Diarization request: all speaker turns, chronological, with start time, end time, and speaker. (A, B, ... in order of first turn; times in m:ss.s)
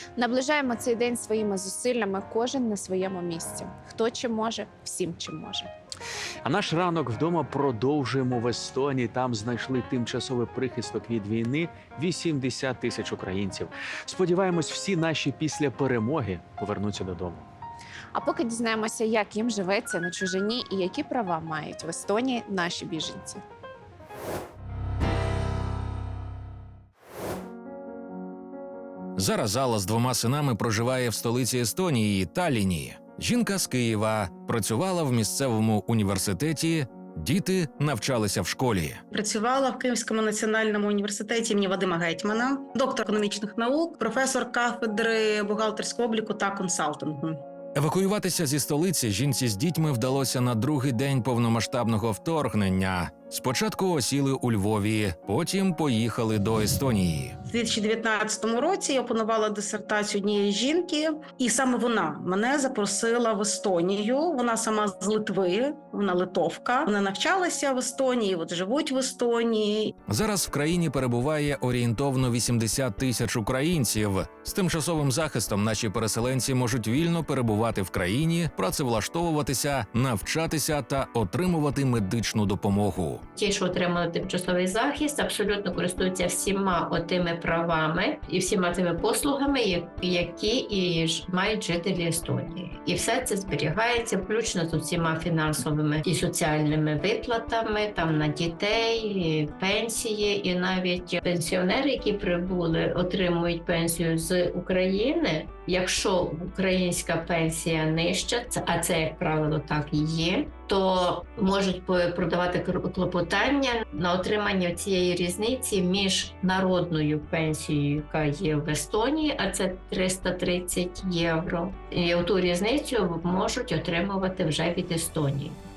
0:00.2-0:05.7 A
0:06.4-0:17.5 B
0:18.1-0:23.4 A
0:29.2-0:39.0 C
0:39.1-0:47.4 D
0:47.8-0:57.4 C
0:57.5-1:09.9 D
1:10.1-1:23.2 C
1:23.4-2:05.6 E